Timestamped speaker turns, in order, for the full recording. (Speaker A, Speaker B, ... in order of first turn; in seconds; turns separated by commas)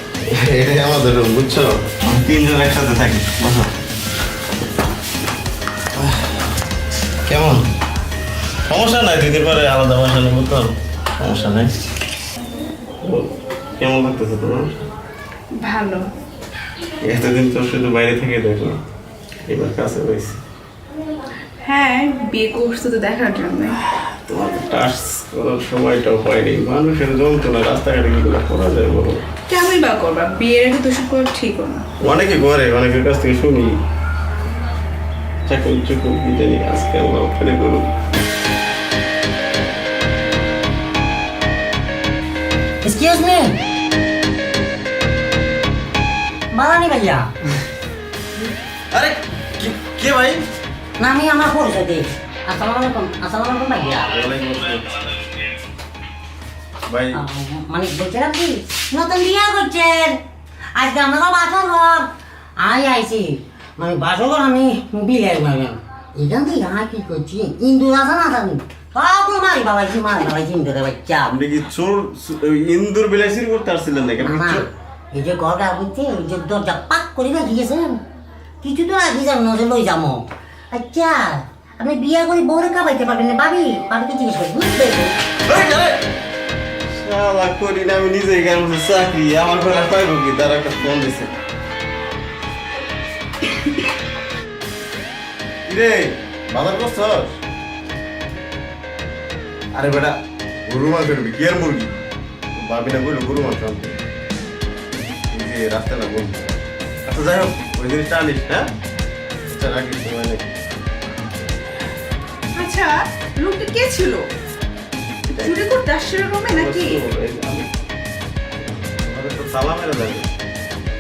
Speaker A: 0.3-3.7, Speaker A: 7.2-7.6, Speaker A: 8.7-11.7, Speaker A: 13.0-14.8, Speaker B: 15.5-16.0, Speaker A: 17.0-18.8, Speaker A: 19.5-20.4, Speaker B: 21.6-23.8, Speaker A: 24.0-29.2, Speaker B: 29.5-31.9, Speaker A: 32.0-33.8, Speaker A: 35.5-37.9, Speaker C: 42.8-43.6, Speaker C: 46.5-47.5, Speaker A: 48.9-50.4, Speaker C: 51.0-54.1, Speaker A: 54.1-55.0, Speaker A: 56.9-57.2, Speaker C: 57.1-60.2, Speaker C: 60.7-71.3, Speaker A: 71.3-74.7, Speaker C: 74.2-78.0, Speaker C: 78.6-85.1, Speaker A: 85.5-86.0, Speaker A: 86.9-91.3, Speaker A: 95.7-97.3, Speaker A: 99.7-101.9, Speaker A: 102.5-104.0, Speaker A: 105.3-108.7, Speaker A: 109.5-110.5, Speaker B: 112.5-114.3, Speaker A: 115.3-115.6, Speaker B: 115.4-117.0, Speaker A: 116.5-117.7, Speaker A: 118.8-120.3